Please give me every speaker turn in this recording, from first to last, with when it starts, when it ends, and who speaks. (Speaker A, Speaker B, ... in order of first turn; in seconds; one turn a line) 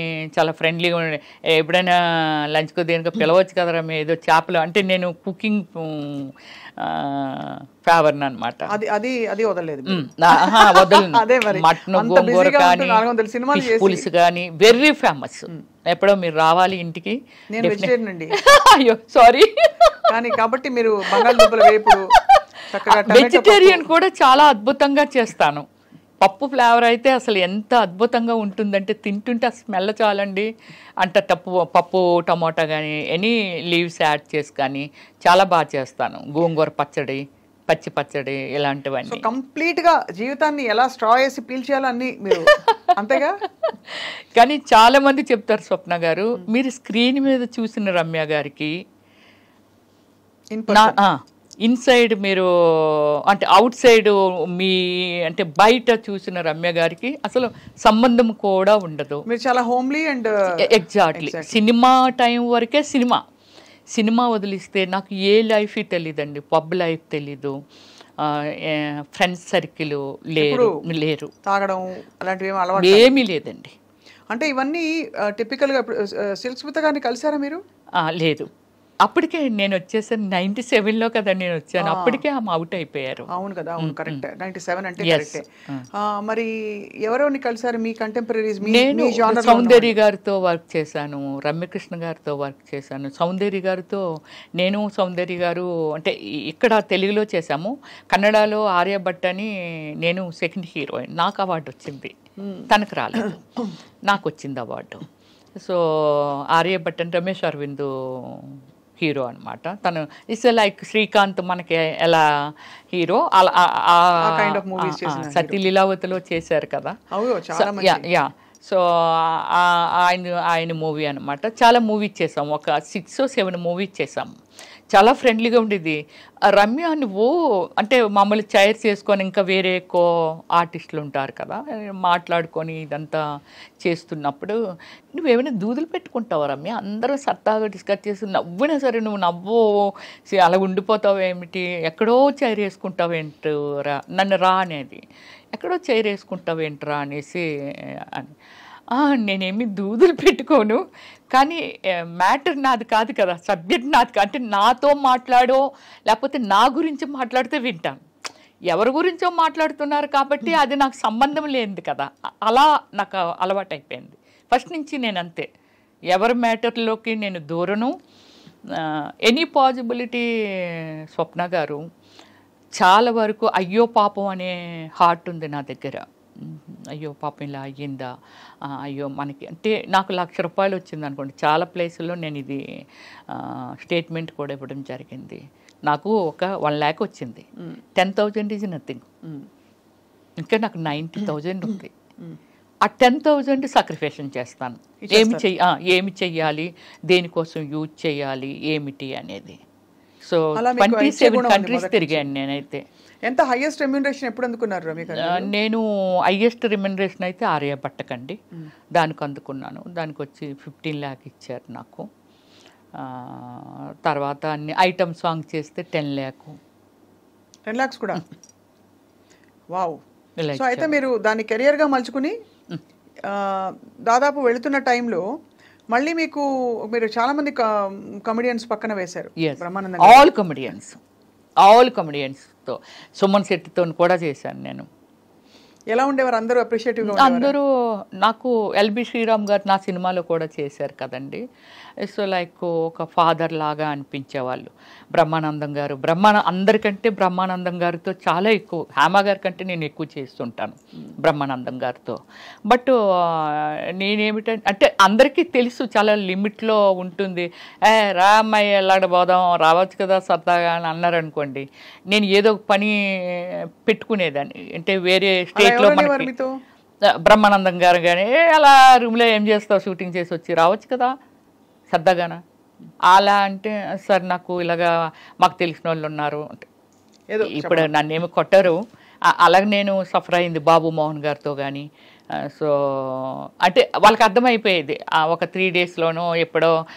Speaker A: 0.3-8.7
Speaker B: 8.7-14.1
Speaker A: 9.9-13.0
Speaker A: 13.5-20.1
Speaker B: 17.5-18.4
Speaker B: 20.1-22.1
Speaker A: 21.1-25.6
Speaker B: 22.7-23.9
Speaker A: 26.2-30.5
Speaker A: 31.0-39.3
Speaker B: 39.1-43.4
Speaker A: 42.5-42.9
Speaker A: 43.6-48.7
Speaker B: 50.5-51.0
Speaker A: 50.7-59.2
Speaker B: 59.3-60.3
Speaker A: 60.6-63.2
Speaker B: 61.1-61.5
Speaker A: 63.9-67.5
Speaker A: 68.2-71.3
Speaker B: 70.4-70.7
Speaker B: 71.4-73.2
Speaker A: 72.8-73.7
Speaker B: 74.3-77.6
Speaker A: 78.0-78.5
Speaker A: 79.0-84.2
Speaker B: 81.8-82.2
Speaker B: 83.3-86.5
Speaker A: 85.0-85.8
Speaker B: 87.0-89.9
Speaker A: 88.7-94.0
Speaker A: 94.6-99.5
Speaker A: 100.0-102.1
Speaker A: 102.7-103.5
Speaker A: 104.0-105.0
Speaker A: 105.6-117.0
Speaker B: 114.2-115.6
Speaker B: 117.1-118.0
Speaker A: 117.5-124.3
Speaker A: 124.9-126.0
Speaker A: 126.5-133.2
Speaker A: 133.8-134.5
Speaker A: 135.1-145.0
Speaker A: 145.5-147.4
Speaker A: 148.0-148.3
Speaker A: 148.9-150.8
Speaker A: 151.3-151.6
Speaker A: 152.2-158.0
Speaker A: 158.7-165.4
Speaker A: 166.1-167.9
Speaker A: 168.8-171.8
Speaker A: 172.8-178.1
Speaker A: 178.7-182.6
Speaker A: 183.3-187.4
Speaker A: 188.0-189.0
Speaker A: 190.4-191.9
Speaker A: 192.8-199.6
Speaker B: 195.1-195.4
Speaker A: 200.2-202.8
Speaker B: 200.6-202.3
Speaker B: 203.2-205.5
Speaker A: 205.2-208.4
Speaker A: 208.9-212.1
Speaker A: 213.0-216.6
Speaker B: 217.7-218.2
Speaker B: 219.7-220.0
Speaker A: 220.4-220.9
Speaker B: 220.5-222.3
Speaker B: 223.3-225.2
Speaker B: 225.9-227.6
Speaker B: 228.2-230.3
Speaker A: 229.4-231.0
Speaker A: 231.6-234.8
Speaker B: 235.9-237.5
Speaker A: 237.1-237.6
Speaker A: 238.2-241.4
Speaker A: 242.1-252.2
Speaker A: 252.7-266.3
Speaker B: 265.6-266.5
Speaker A: 267.2-271.1
Speaker A: 271.9-272.4
Speaker A: 273.1-276.7
Speaker B: 277.3-277.9
Speaker A: 277.4-278.8
Speaker A: 279.3-281.9
Speaker A: 282.4-286.7